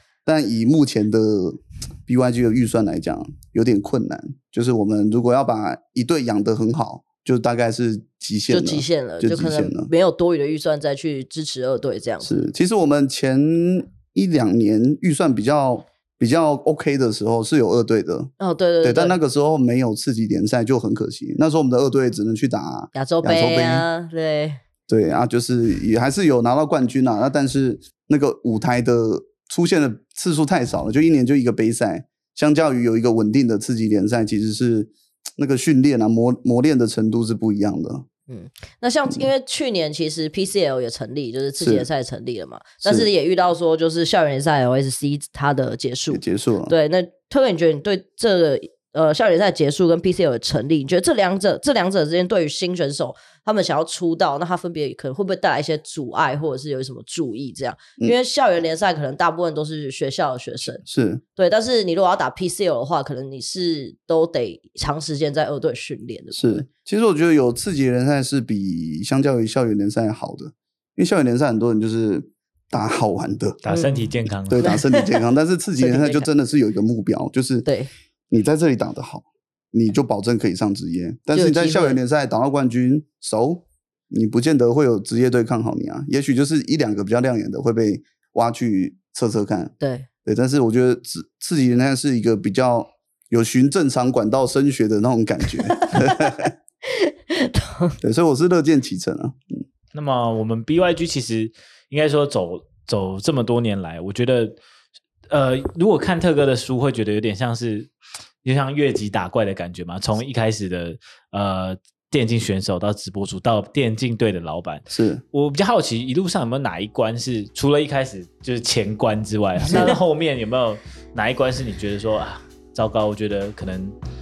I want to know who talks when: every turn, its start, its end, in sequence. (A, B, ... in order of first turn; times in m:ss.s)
0:00.3-0:09.9 A
0:08.5-0:12.5 B
0:12.2-0:23.9 A
0:18.4-0:19.2 B
0:22.9-0:24.6 B
0:24.9-0:38.1 A
0:38.3-1:00.8 B
0:41.6-0:41.9 A
0:46.1-0:46.7 A
1:00.8-1:01.2 A
1:01.4-1:06.7 B
1:06.3-1:13.6 A
1:13.6-1:14.7 C
1:13.7-1:14.1 B
1:14.5-1:17.7 A
1:14.6-1:15.2 B
1:15.8-1:16.3 B
1:18.3-1:36.5 A
1:21.3-1:22.0 B
1:29.8-1:30.1 B
1:35.8-1:36.3 B
1:36.9-1:38.0 B
1:38.0-1:39.6 A
1:39.9-1:44.6 C
1:45.3-2:04.0 C
1:54.9-1:55.2 A